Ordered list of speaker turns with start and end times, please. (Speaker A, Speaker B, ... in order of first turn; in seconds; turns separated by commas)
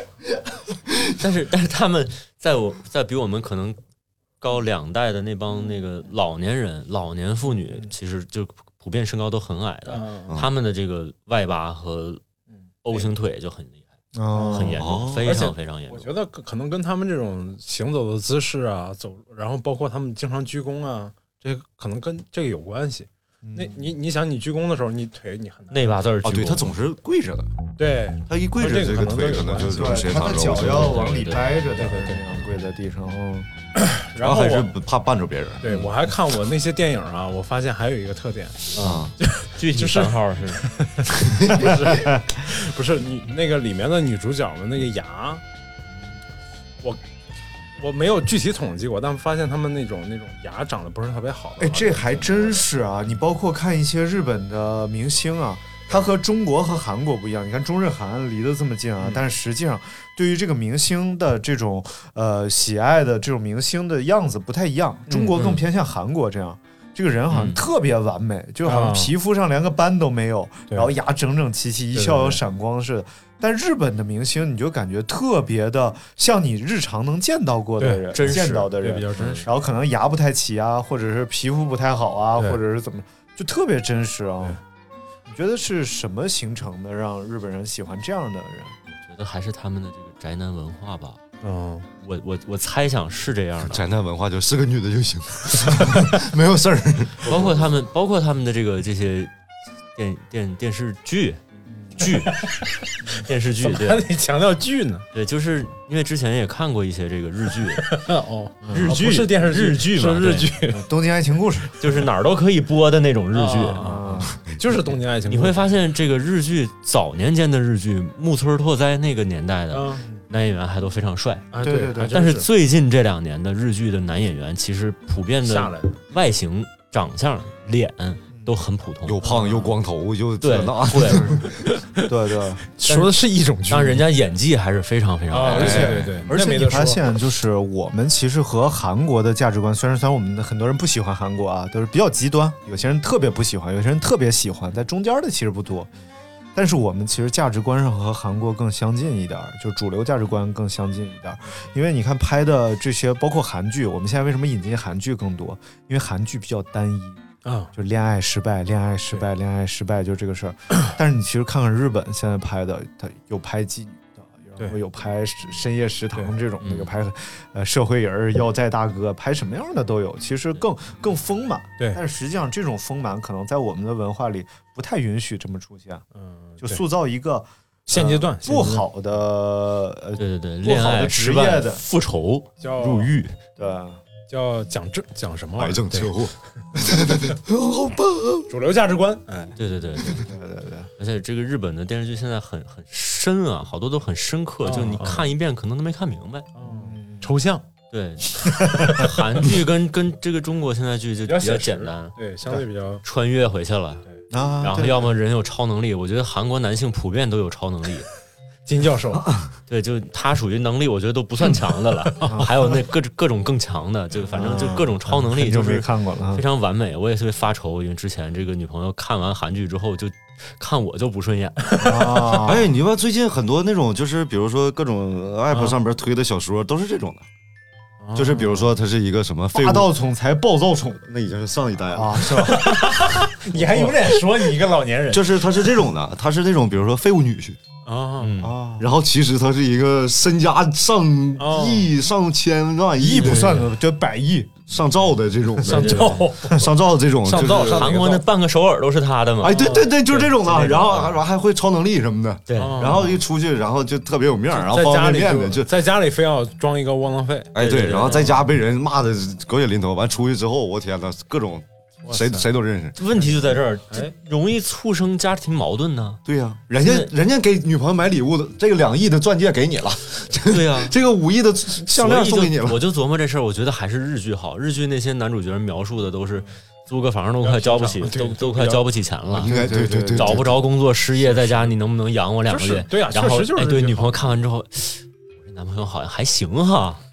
Speaker A: 0.9-1.1, Speaker B: 1.2-3.8, Speaker B: 4.4-12.2, Speaker C: 9.9-10.4, Speaker C: 12.5-13.1, Speaker B: 12.8-13.9, Speaker D: 14.2-14.8, Speaker C: 14.3-25.9, Speaker B: 14.5-16.1, Speaker A: 14.8-15.3, Speaker D: 23.4-23.9, Speaker B: 25.7-26.7, Speaker A: 26.2-27.6, Speaker C: 27.8-30.3, Speaker A: 28.3-31.1, Speaker D: 29.7-33.5, Speaker B: 30.4-31.6, Speaker C: 31.7-32.4, Speaker C: 33.8-34.7, Speaker A: 34.2-35.8, Speaker C: 35.6-45.4, Speaker B: 38.8-40.6, Speaker A: 38.8-39.1, Speaker D: 41.9-42.1, Speaker C: 47.8-52.7, Speaker D: 51.6-84.6, Speaker C: 65.1-65.6, Speaker B: 67.3-67.6, Speaker C: 68.6-69.1, Speaker C: 71.9-72.4, Speaker C: 77.8-79.5, Speaker B: 78.1-79.5, Speaker D: 85.3-88.8, Speaker B: 88.9-91.2, Speaker C: 91.4-91.9, Speaker B: 92.0-93.9, Speaker A: 93.6-97.5, Speaker B: 97.3-99.3, Speaker B: 100.0-101.4, Speaker D: 101.8-102.1, Speaker B: 102.0-102.5, Speaker C: 102.0-103.1, Speaker B: 103.1-104.1, Speaker C: 103.6-105.1, Speaker B: 105.1-108.0, Speaker C: 107.8-110.9, Speaker D: 108.7-108.9, Speaker B: 108.7-110.5, Speaker D: 110.7-111.8, Speaker B: 111.8-113.9, Speaker C: 113.3-115.7, Speaker D: 113.8-114.4, Speaker A: 114.3-114.6, Speaker B: 115.3-121.5, Speaker C: 119.7-120.2, Speaker C: 121.5-122.5, Speaker D: 121.6-122.2, Speaker B: 122.1-129.2, Speaker C: 125.5-126.0, Speaker D: 128.3-128.6, Speaker A: 129.1-131.6, Speaker C: 129.2-129.7, Speaker B: 130.4-131.4, Speaker C: 131.7-132.1, Speaker D: 132.0-132.6, Speaker C: 132.8-134.1, Speaker B: 132.8-133.2, Speaker B: 133.7-136.1, Speaker C: 135.3-137.1, Speaker D: 135.5-145.9, Speaker A: 135.5-136.1, Speaker D: 146.6-157.2, Speaker C: 157.4-157.7, Speaker D: 157.8-176.0, Speaker B: 166.6-166.9, Speaker C: 176.2-176.8, Speaker D: 176.6-181.8, Speaker C: 177.9-178.9, Speaker B: 180.2-183.4, Speaker C: 182.6-183.1, Speaker D: 183.6-184.0, Speaker C: 184.3-186.2, Speaker A: 185.6-188.5, Speaker C: 188.5-189.6, Speaker B: 189.6-190.3, Speaker D: 190.2-190.9, Speaker B: 191.0-196.5, Speaker C: 194.6-195.3, Speaker C: 196.6-197.6, Speaker D: 196.6-197.3, Speaker B: 197.9-202.2, Speaker C: 201.2-203.0, Speaker B: 203.0-204.0, Speaker D: 204.3-205.2, Speaker B: 204.6-208.1, Speaker C: 208.7-209.3, Speaker A: 209.2-209.5, Speaker B: 209.7-222.3, Speaker C: 212.2-212.5, Speaker D: 212.2-212.5, Speaker D: 214.3-216.4, Speaker D: 221.8-222.7, Speaker A: 222.4-227.3, Speaker C: 225.5-225.8, Speaker C: 228.0-228.7, Speaker A: 228.2-229.9, Speaker D: 229.5-231.1, Speaker A: 231.1-232.7, Speaker D: 231.9-233.0, Speaker C: 232.4-235.4, Speaker D: 233.5-233.9, Speaker A: 233.7-234.0, Speaker A: 235.1-237.6, Speaker C: 237.8-238.4, Speaker B: 238.2-238.6, Speaker D: 238.4-238.9, Speaker A: 238.8-243.6, Speaker C: 241.4-241.9, Speaker D: 243.0-244.7, Speaker C: 243.2-243.7, Speaker A: 244.7-248.0, Speaker C: 245.6-246.7, Speaker B: 245.7-246.3, Speaker C: 247.2-248.2, Speaker B: 247.7-251.2, Speaker A: 249.4-255.7, Speaker C: 249.4-250.3, Speaker B: 252.5-253.0, Speaker C: 252.6-253.2, Speaker C: 254.5-257.5, Speaker A: 257.5-263.0, Speaker B: 257.6-258.4, Speaker C: 262.0-262.5, Speaker B: 263.0-266.2, Speaker A: 266.3-272.8, Speaker B: 266.8-267.1, Speaker B: 270.4-271.0, Speaker B: 271.9-287.0, Speaker C: 277.4-278.9, Speaker A: 279.3-280.6, Speaker D: 279.4-280.5, Speaker C: 281.2-281.7, Speaker C: 282.5-284.3